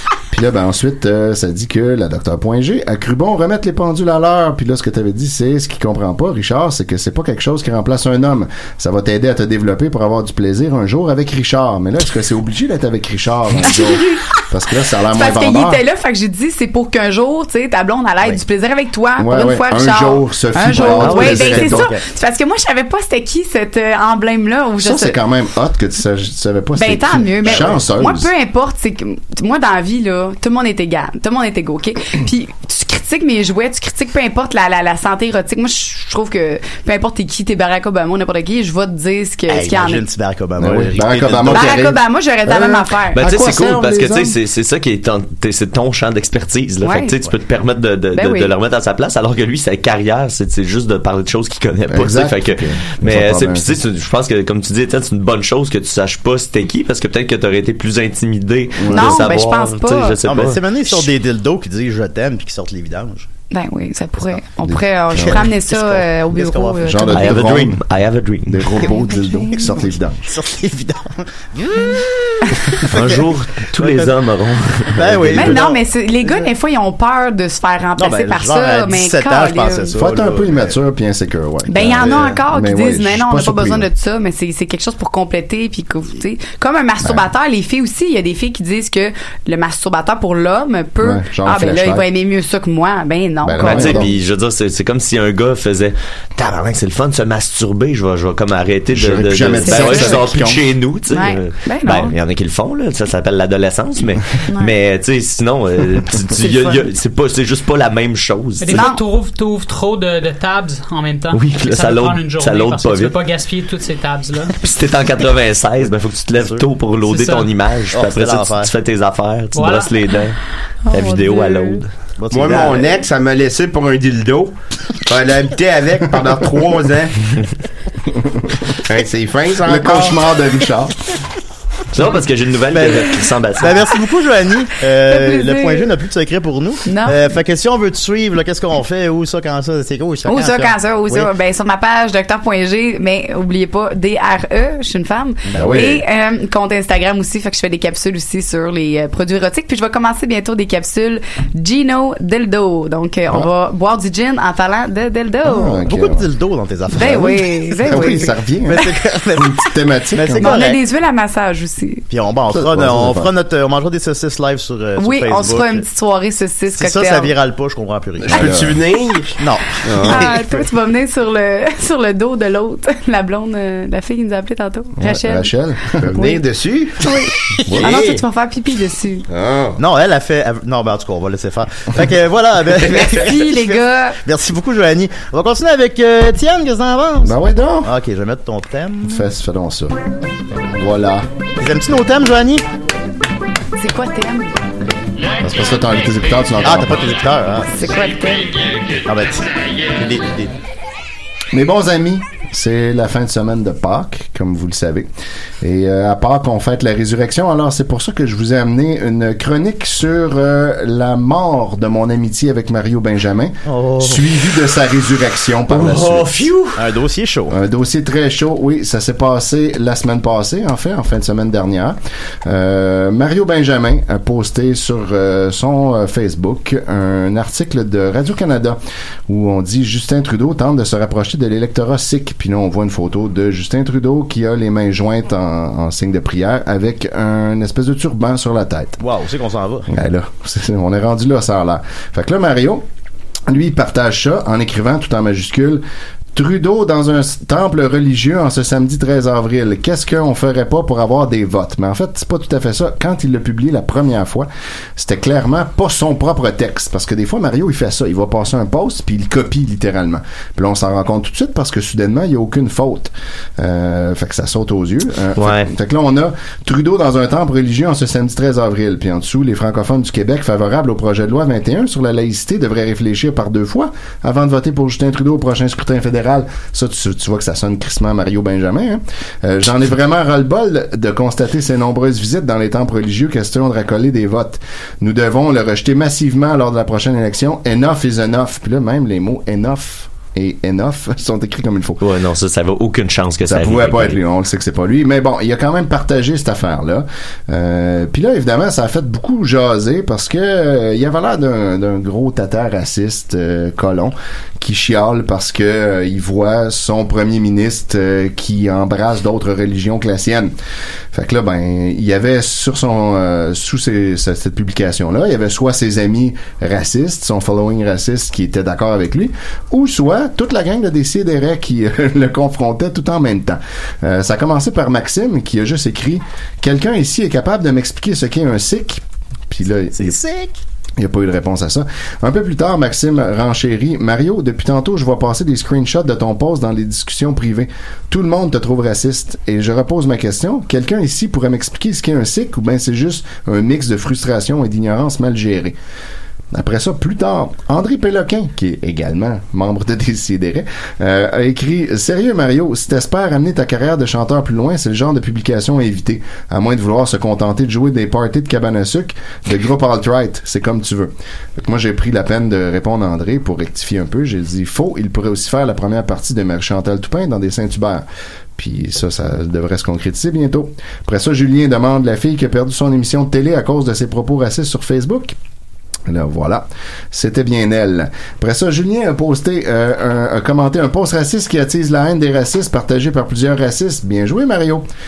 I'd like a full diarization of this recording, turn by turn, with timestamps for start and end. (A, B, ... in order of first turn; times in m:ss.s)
0:00.3-0:15.8 A
0:13.7-0:14.3 B
0:15.1-0:25.2 B
0:19.2-0:21.9 A
0:21.0-0:21.6 C
0:21.0-0:22.0 D
0:24.8-0:28.3 A
0:26.8-0:40.0 B
0:27.5-0:27.8 D
0:39.5-0:41.8 D
0:40.6-0:44.4 A
0:41.5-0:43.3 B
0:43.1-1:01.1 C
0:46.8-0:47.2 B
0:48.1-0:48.5 B
0:51.9-0:53.8 A
0:58.8-0:59.2 A
0:58.9-1:00.2 B
1:00.2-1:03.3 D
1:03.5-1:07.3 B
1:04.6-1:05.5 A
1:05.2-1:07.1 D
1:06.8-1:07.8 A
1:07.1-1:08.8 C
1:08.5-1:10.3 A
1:08.8-1:09.7 B
1:10.3-1:14.1 D
1:12.9-1:15.6 C
1:14.9-1:16.5 D
1:15.3-1:20.0 B
1:18.0-1:20.7 D
1:20.0-1:23.9 A
1:21.7-1:34.1 B
1:22.0-1:22.3 D
1:27.0-1:27.3 A
1:31.0-1:32.1 A
1:33.4-1:34.1 A
1:33.6-1:48.9 C
1:38.9-1:40.7 A
1:39.6-1:40.2 B
1:41.1-1:42.1 B
1:44.5-1:44.7 B
1:46.4-1:46.8 B
1:48.6-1:54.6 E
1:48.7-1:49.0 B
1:51.3-1:53.2 C
1:54.6-2:00.4 C
1:57.0-1:57.5 E
1:57.9-1:58.7 D
1:59.5-1:59.9 E
2:00.9-2:01.8 B
2:00.9-2:01.9 C
2:02.2-2:03.0 D
2:02.3-2:04.5 F
2:05.1-2:07.2 F
2:08.8-2:10.2 F
2:09.7-2:11.0 A
2:11.9-2:13.9 C
2:12.7-2:21.3 D
2:15.1-2:15.9 B
2:16.9-2:17.2 B
2:20.3-2:35.8 B
2:25.5-2:25.9 D
2:25.5-2:26.0 A
2:35.4-2:36.3 A
2:35.8-2:39.6 D
2:36.9-2:38.3 B
2:37.0-2:38.8 A
2:39.4-2:40.6 A
2:40.1-2:40.8 D
2:40.4-2:42.0 B
2:42.1-2:45.8 D
2:42.5-2:43.3 A
2:45.0-2:47.3 B
2:46.7-2:48.6 D
2:48.3-2:48.8 A
2:48.3-2:50.2 F
2:49.4-2:50.4 D
2:50.0-2:56.4 B
2:55.0-2:56.3 A
2:56.1-2:57.0 F
2:57.0-2:59.3 B
2:57.7-2:58.0 D
2:57.7-2:58.2 F
2:59.3-2:59.8 F
2:59.8-3:09.3 D
3:02.9-3:04.2 B
3:07.2-3:07.9 A
3:09.0-3:10.0 A
3:10.7-3:11.3 A
3:11.6-3:12.7 D
3:13.8-3:14.6 B
3:15.4-3:17.1 A
3:16.6-3:17.8 D
3:17.7-3:18.5 B
3:19.1-3:20.5 D
3:21.5-3:25.1 A
3:25.6-3:36.4 A
3:33.7-3:34.3 D
3:35.7-3:36.8 C
3:36.8-3:37.6 D
3:37.5-3:59.0 A
3:59.0-3:59.9 D
3:59.9-4:02.8 A
4:03.5-4:05.8 A
4:06.3-4:52.0 A
4:25.4-4:25.7 C
4:52.0-4:54.2 C
4:53.4-5:10.5 A
5:11.1-5:30.2 A
5:29.9-5:30.6 D
5:31.0-5:45.8 A
5:46.5-6:08.0 A
6:08.6-6:15.4 A
6:16.1-6:24.9 A